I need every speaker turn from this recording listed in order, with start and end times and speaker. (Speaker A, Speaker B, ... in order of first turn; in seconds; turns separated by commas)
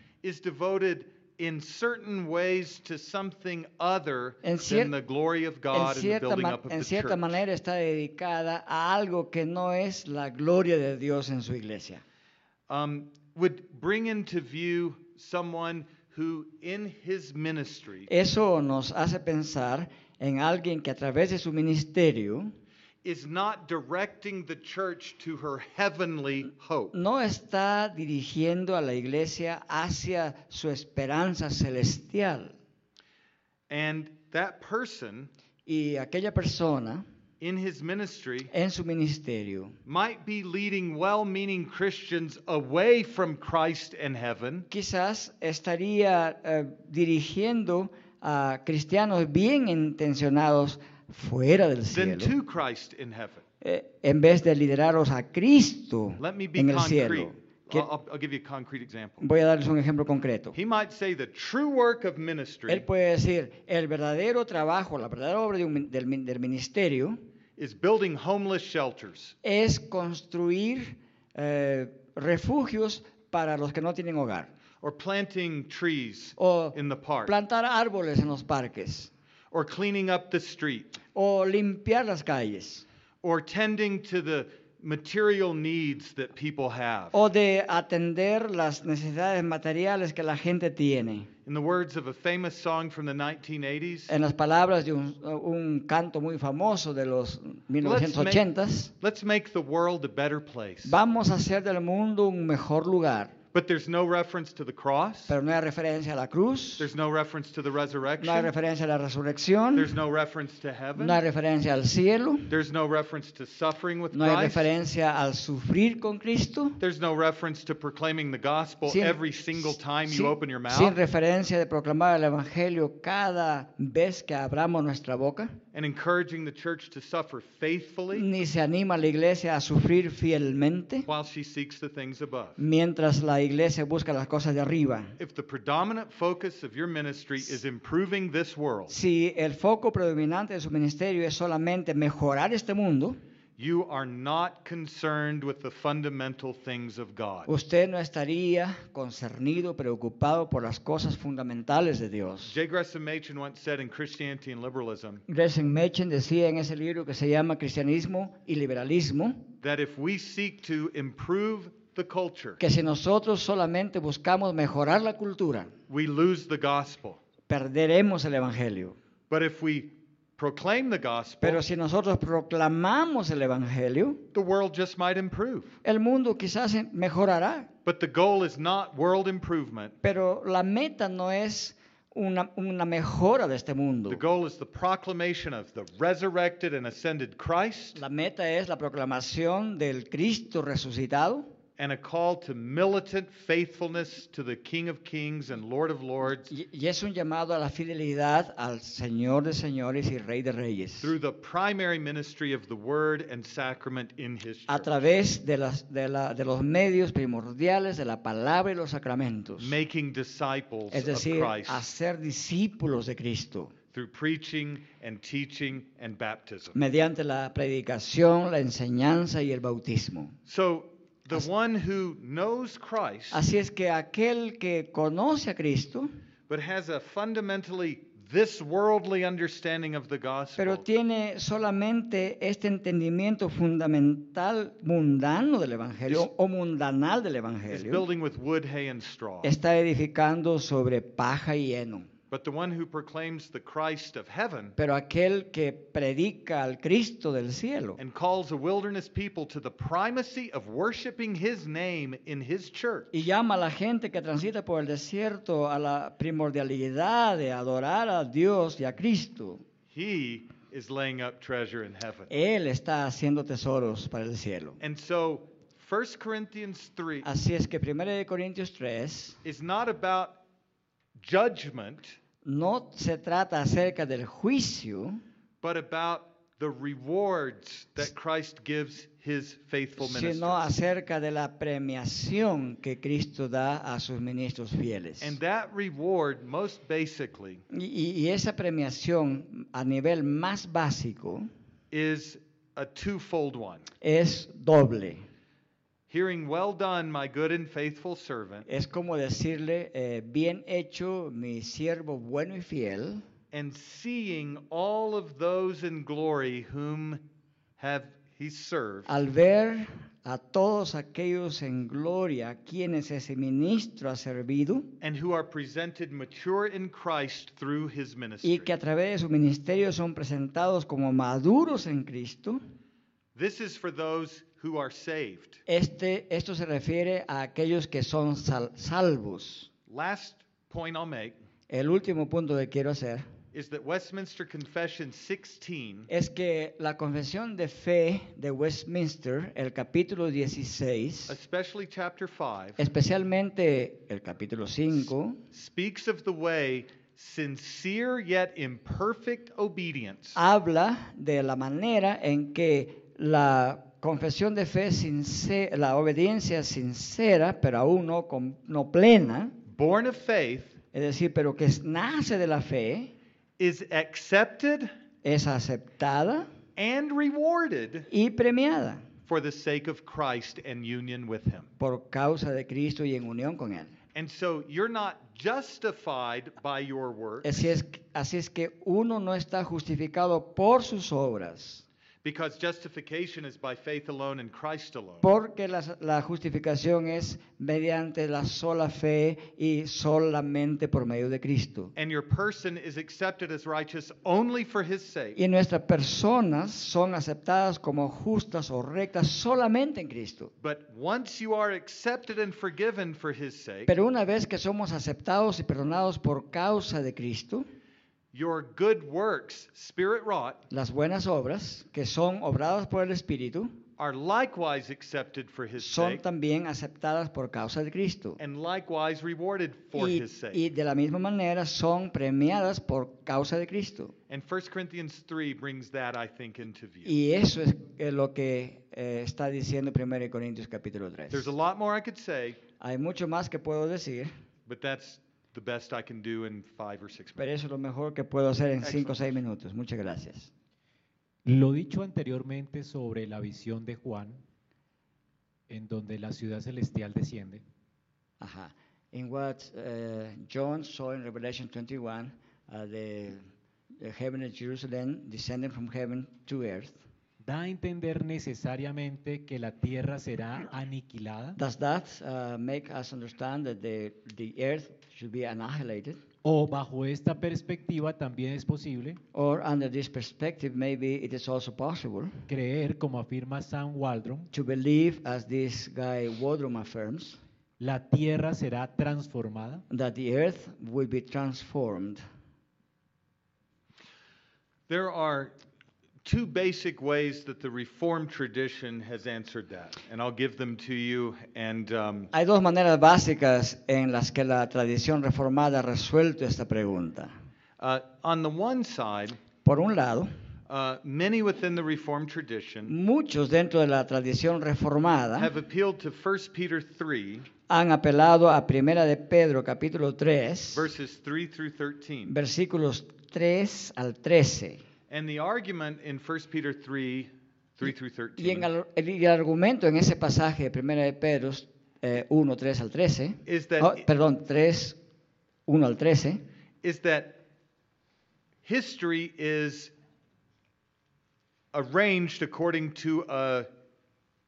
Speaker A: 0.2-7.4, Speaker B: 4.4-4.9, Speaker B: 5.7-12.0, Speaker A: 12.7-18.1, Speaker B: 18.1-22.5, Speaker A: 23.0-26.9, Speaker B: 26.9-32.5, Speaker A: 33.7-35.3, Speaker B: 35.7-37.0, Speaker A: 37.4-38.5, Speaker B: 38.5-39.8, Speaker A: 39.9-44.7, Speaker B: 44.7-52.4, Speaker A: 51.9-53.4, Speaker B: 53.6-57.9, Speaker A: 56.2-59.2, Speaker B: 59.2-60.6, Speaker A: 60.5-62.9, Speaker B: 62.7-67.2, Speaker A: 67.6-69.4, Speaker B: 69.4-74.5, Speaker A: 74.8-77.3, Speaker B: 76.4-79.1, Speaker A: 79.5-81.0, Speaker B: 81.1-82.8, Speaker A: 83.2-87.2, Speaker B: 87.1-91.3, Speaker A: 91.5-94.1, Speaker B: 94.1-98.9, Speaker A: 97.8-98.5, Speaker A: 99.0-101.0, Speaker B: 100.8-103.3, Speaker A: 103.5-105.4, Speaker B: 105.3-106.9, Speaker A: 106.8-108.5, Speaker B: 108.2-110.0, Speaker A: 109.8-111.2, Speaker B: 111.0-112.6, Speaker A: 112.5-114.7, Speaker B: 114.1-116.8, Speaker A: 116.8-121.0, Speaker B: 118.9-125.6, Speaker A: 125.7-128.3, Speaker B: 128.1-131.1, Speaker A: 131.1-132.6, Speaker B: 132.6-135.2, Speaker A: 135.2-138.9, Speaker B: 138.9-143.2, Speaker A: 143.6-147.5, Speaker B: 147.5-152.6, Speaker A: 152.5-155.2, Speaker B: 155.3-159.5, Speaker A: 159.6-162.6, Speaker B: 162.6-165.7, Speaker A: 165.9-167.2, Speaker B: 167.5-169.0, Speaker A: 169.3-171.6, Speaker B: 171.4-174.3, Speaker A: 174.3-175.8, Speaker B: 175.8-177.7, Speaker A: 177.9-180.0, Speaker B: 180.0-184.2, Speaker A: 184.1-188.0, Speaker B: 187.9-191.5, Speaker A: 191.8-196.5, Speaker B: 196.5-201.1, Speaker A: 201.0-205.0, Speaker B: 204.7-209.8, Speaker A: 209.6-211.8, Speaker B: 210.9-213.7, Speaker A: 213.9-216.8, Speaker B: 216.8-220.4, Speaker A: 220.5-223.4, Speaker B: 223.3-226.2, Speaker A: 226.5-230.8, Speaker B: 230.6-238.1, Speaker A: 237.7-239.5, Speaker B: 239.4-242.1, Speaker A: 242.3-244.8, Speaker B: 244.8-248.0, Speaker A: 248.0-253.2, Speaker B: 253.1-259.6, Speaker A: 259.9-262.3, Speaker B: 262.3-264.8, Speaker A: 264.8-267.3, Speaker B: 267.2-269.4, Speaker A: 269.4-270.4, Speaker A: 271.2-272.2, Speaker B: 272.4-275.2, Speaker A: 275.6-280.7, Speaker B: 280.0-285.4, Speaker A: 285.2-287.6, Speaker B: 287.7-291.5, Speaker A: 291.9-293.9, Speaker B: 294.0-295.2, Speaker A: 296.1-298.7, Speaker B: 298.7-303.2, Speaker A: 303.5-307.2, Speaker A: 307.8-309.1, Speaker B: 309.1-314.9, Speaker A: 315.0-318.7, Speaker B: 318.4-322.6, Speaker A: 323.4-325.6, Speaker B: 325.7-329.7, Speaker A: 329.9-331.4, Speaker B: 331.7-333.3, Speaker A: 333.5-336.1, Speaker B: 336.1-341.3, Speaker A: 341.3-342.8, Speaker B: 342.8-345.4, Speaker A: 345.5-350.4, Speaker B: 350.4-359.6, Speaker A: 359.7-360.8, Speaker B: 360.9-363.1, Speaker A: 363.6-364.9, Speaker B: 365.2-366.5, Speaker A: 366.8-368.1, Speaker B: 368.1-369.1, Speaker A: 369.3-371.7, Speaker B: 371.8-373.9, Speaker A: 374.1-377.8, Speaker B: 377.4-381.9, Speaker A: 382.2-385.3, Speaker B: 385.2-391.9, Speaker A: 392.0-395.4, Speaker B: 395.4-400.5, Speaker A: 400.6-403.9, Speaker B: 403.9-407.7, Speaker A: 408.3-410.6, Speaker B: 410.7-413.8, Speaker A: 414.0-416.2, Speaker B: 415.8-418.4, Speaker A: 418.4-420.6, Speaker B: 419.9-424.1, Speaker A: 424.3-427.1, Speaker B: 427.1-431.5, Speaker A: 431.3-432.6, Speaker B: 432.8-434.3, Speaker A: 434.7-437.4, Speaker B: 437.4-440.5, Speaker A: 438.8-439.3, Speaker C: 441.4-444.4, Speaker C: 445.7-447.6, Speaker B: 448.4-453.5, Speaker B: 454.0-457.0, Speaker C: 457.4-461.6, Speaker B: 461.6-466.2, Speaker C: 466.4-469.2, Speaker B: 469.3-472.4, Speaker C: 472.5-474.5, Speaker B: 474.5-477.4, Speaker C: 477.8-479.8, Speaker B: 479.9-482.2, Speaker A: 484.9-485.6, Speaker A: 486.2-492.3, Speaker B: 492.3-497.3, Speaker A: 497.8-499.4, Speaker B: 499.6-500.3, Speaker A: 500.7-502.9, Speaker B: 502.9-505.5, Speaker A: 505.4-507.5, Speaker B: 507.7-510.9, Speaker A: 510.7-512.3, Speaker B: 512.3-514.8, Speaker A: 515.1-518.7, Speaker B: 518.4-525.0, Speaker A: 523.5-524.1, Speaker B: 525.7-526.4, Speaker A: 526.8-527.4, Speaker A: 528.6-529.9, Speaker A: 531.7-533.7